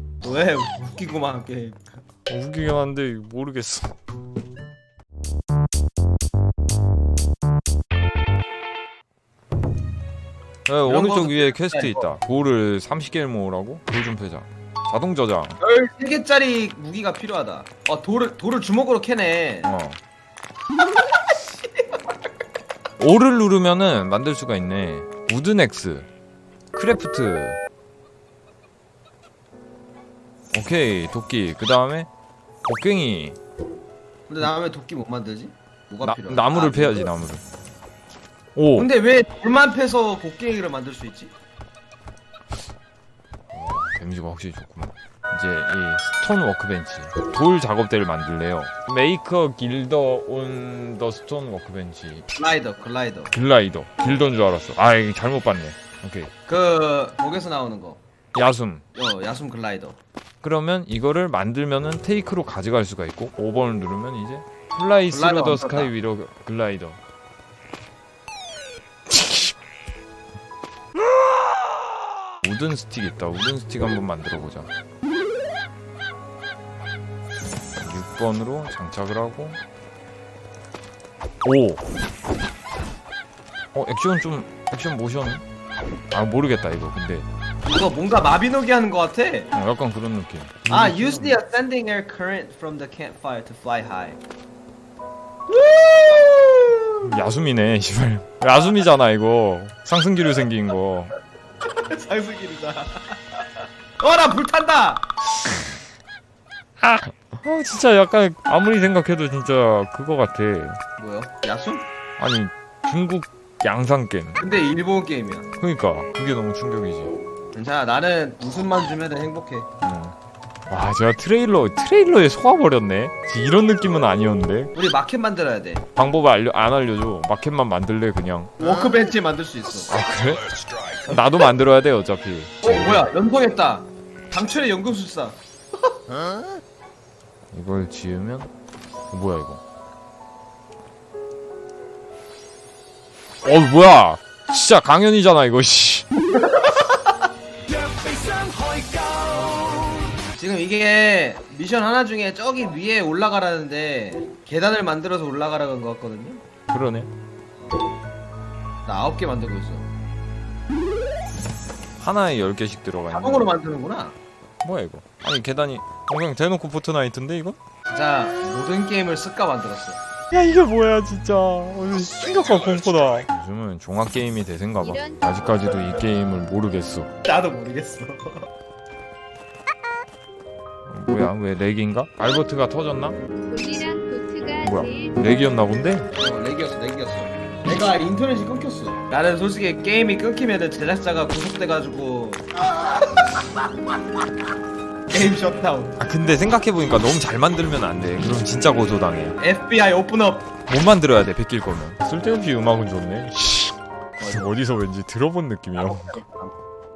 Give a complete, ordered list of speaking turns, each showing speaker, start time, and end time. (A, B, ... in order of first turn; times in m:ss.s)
0:00.2-0:01.8 A
0:02.3-0:03.9 B
0:10.6-0:15.6 B
0:10.8-0:12.1 A
0:15.6-0:19.7 A
0:19.6-0:20.0 B
0:23.0-0:26.1 B
0:26.7-0:27.6 B
0:30.5-0:32.1 B
0:32.6-0:33.4 B
0:34.3-0:37.1 A
0:36.0-0:37.5 B
0:38.5-0:38.9 B
0:38.8-0:41.3 A
0:43.5-0:52.2 B
0:52.3-0:53.3 A
0:53.3-0:56.3 B
0:56.5-0:58.0 A
0:58.3-0:58.8 B
0:58.9-1:00.0 A
1:00.4-1:07.0 B
1:05.1-1:05.9 A
1:09.1-1:09.5 B
1:12.4-1:14.7 B
1:17.8-1:19.6 B
1:21.4-1:21.8 B
1:23.7-1:25.4 B
1:26.1-1:27.3 B
1:27.6-1:29.5 A
1:29.5-1:31.4 B
1:30.7-1:34.2 A
1:35.5-1:37.2 A
1:37.0-1:41.1 B
1:41.6-1:45.1 A
1:46.8-1:50.8 B
1:51.0-1:51.8 A
1:52.2-1:54.4 B
1:54.4-1:55.5 A
1:55.6-1:57.1 B
1:57.5-1:59.7 A
1:59.8-2:00.1 B
2:00.7-2:04.7 B
2:04.7-2:05.8 A
2:06.0-2:08.5 B
2:08.6-2:09.9 A
2:09.9-2:10.5 B
2:11.1-2:12.8 B
2:12.6-2:15.4 A
2:17.5-2:18.5 B
2:19.1-2:19.6 B
2:23.4-2:26.0 B
2:26.4-2:27.0 A
2:30.3-2:36.4 A
2:36.7-2:37.1 B
2:38.8-2:39.9 A
2:42.0-2:43.5 B
2:43.1-2:44.2 A
2:44.6-2:47.6 B
2:47.9-2:50.0 A
2:50.3-2:57.1 B
2:54.8-2:55.3 C
2:57.2-2:58.4 A
3:00.9-3:03.2 B
3:03.5-3:05.4 C
3:04.6-3:06.1 B
3:06.2-3:13.4 A
3:15.1-3:16.0 A
3:16.0-3:19.4 B
3:19.4-3:20.5 A
3:20.7-3:26.2 B
3:24.2-3:24.5 A
3:25.8-3:26.5 A